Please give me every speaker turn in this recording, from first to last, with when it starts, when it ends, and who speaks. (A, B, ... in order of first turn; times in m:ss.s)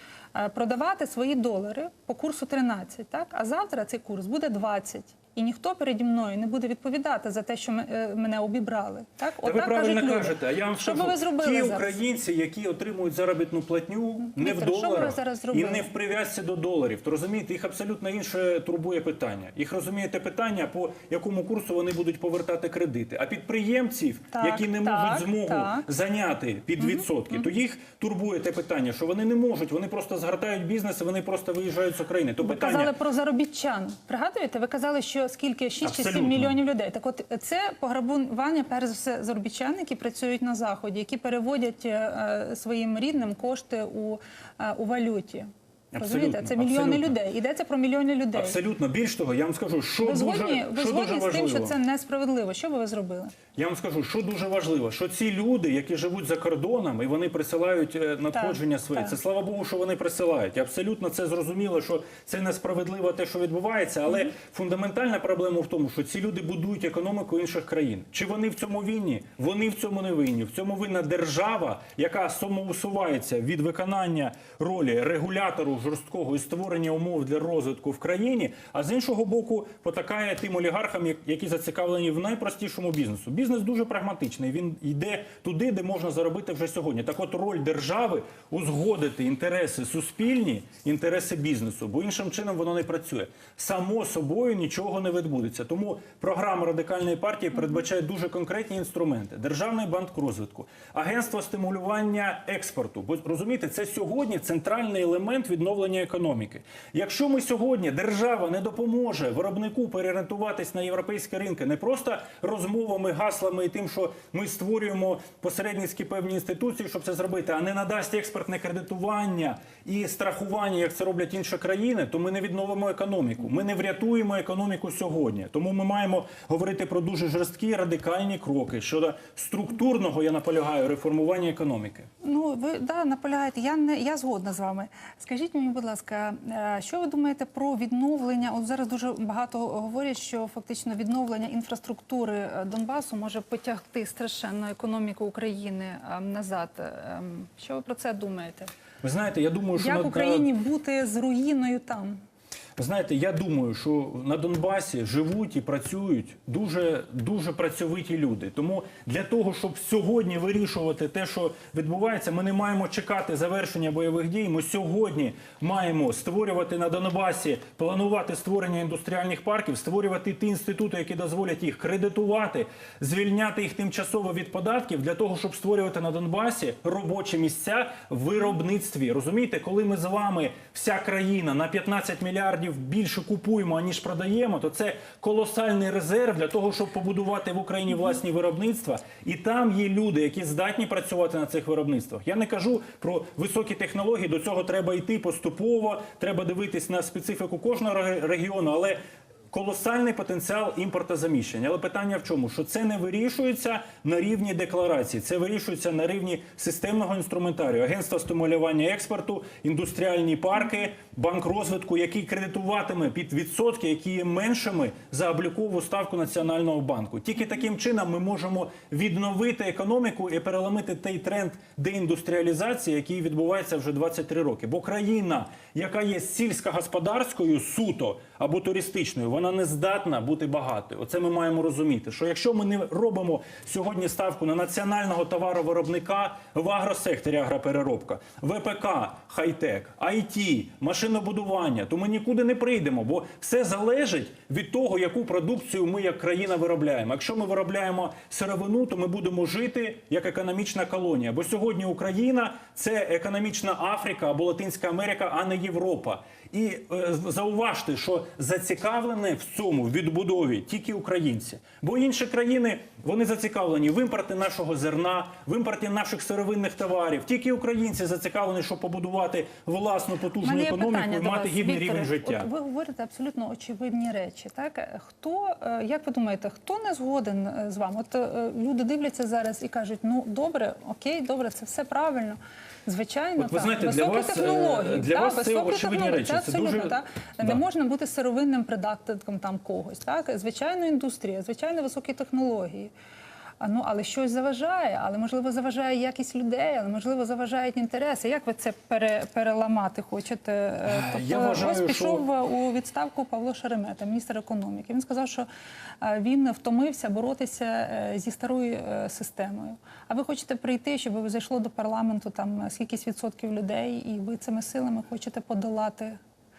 0:00.3-0:11.9 A
0:09.4-0:32.9 B
0:14.3-0:15.9 A
0:24.3-0:25.9 A
0:32.4-0:48.6 A
0:35.8-0:36.6 B
0:45.9-0:47.1 B
0:48.3-0:51.7 B
0:50.0-0:53.4 A
0:53.5-2:12.1 B
0:58.3-0:59.1 A
2:12.2-2:28.7 A
2:29.0-2:30.5 B
2:29.8-2:32.2 A
2:32.8-3:19.0 B
3:19.5-4:32.5 B
4:30.4-4:52.9 A
4:43.4-4:47.6 B
4:53.6-5:05.5 A
5:00.9-5:02.2 B
5:06.0-5:16.2 A